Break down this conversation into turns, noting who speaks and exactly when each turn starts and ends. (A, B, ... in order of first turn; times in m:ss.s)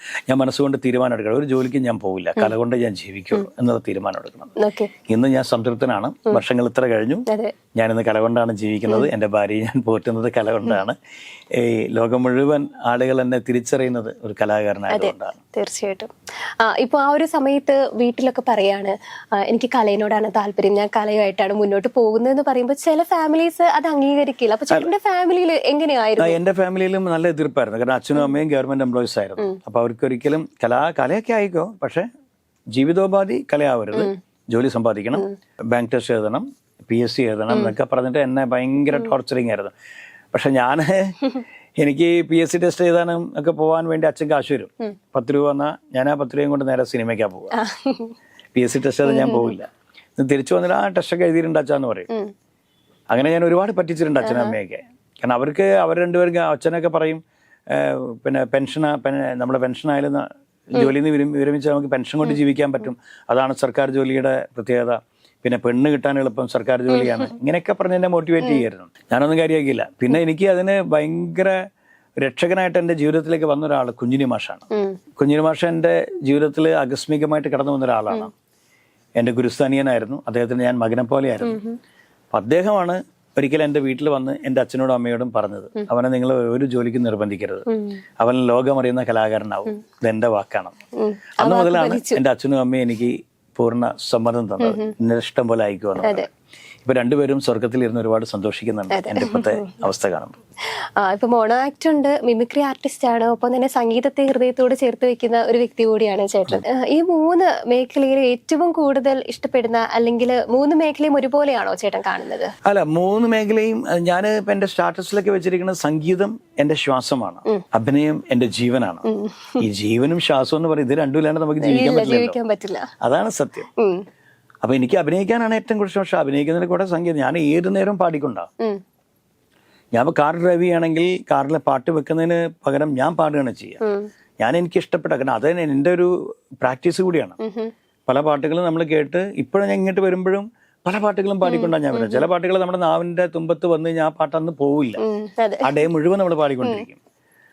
0:00.3-0:11.0 A
0:04.6-0:04.9 B
0:07.3-0:07.6 B
0:11.5-0:15.4 A
0:14.9-0:16.1 B
0:16.6-0:26.4 B
0:26.2-0:32.1 A
0:32.8-0:39.7 A
0:40.3-0:41.2 A
0:41.8-0:47.6 A
0:47.5-0:48.2 B
0:48.6-0:52.1 A
0:49.1-0:49.6 B
0:53.1-1:11.6 A
0:54.2-0:54.6 B
1:06.9-1:07.3 B
1:12.2-1:18.3 A
1:19.2-1:21.6 A
1:21.4-1:21.8 B
1:22.3-1:27.7 A
1:27.7-1:28.0 B
1:28.2-1:30.8 A
1:31.0-1:32.2 B
1:31.4-1:36.3 A
1:34.6-1:34.9 B
1:36.8-1:40.4 A
1:38.9-1:39.7 B
1:41.0-1:52.5 B
1:52.6-1:59.0 A
1:59.0-1:59.6 B
1:59.6-2:02.4 A
2:01.6-2:02.9 B
2:03.0-2:03.7 A
2:03.8-2:04.0 B
2:04.6-2:08.5 A
2:10.0-2:13.8 A
2:13.8-2:14.1 B
2:14.4-2:16.1 A
2:16.6-2:17.4 A
2:17.4-2:17.7 B
2:18.1-2:25.0 A
2:21.4-2:22.3 B
2:25.0-2:25.7 B
2:25.6-2:27.0 A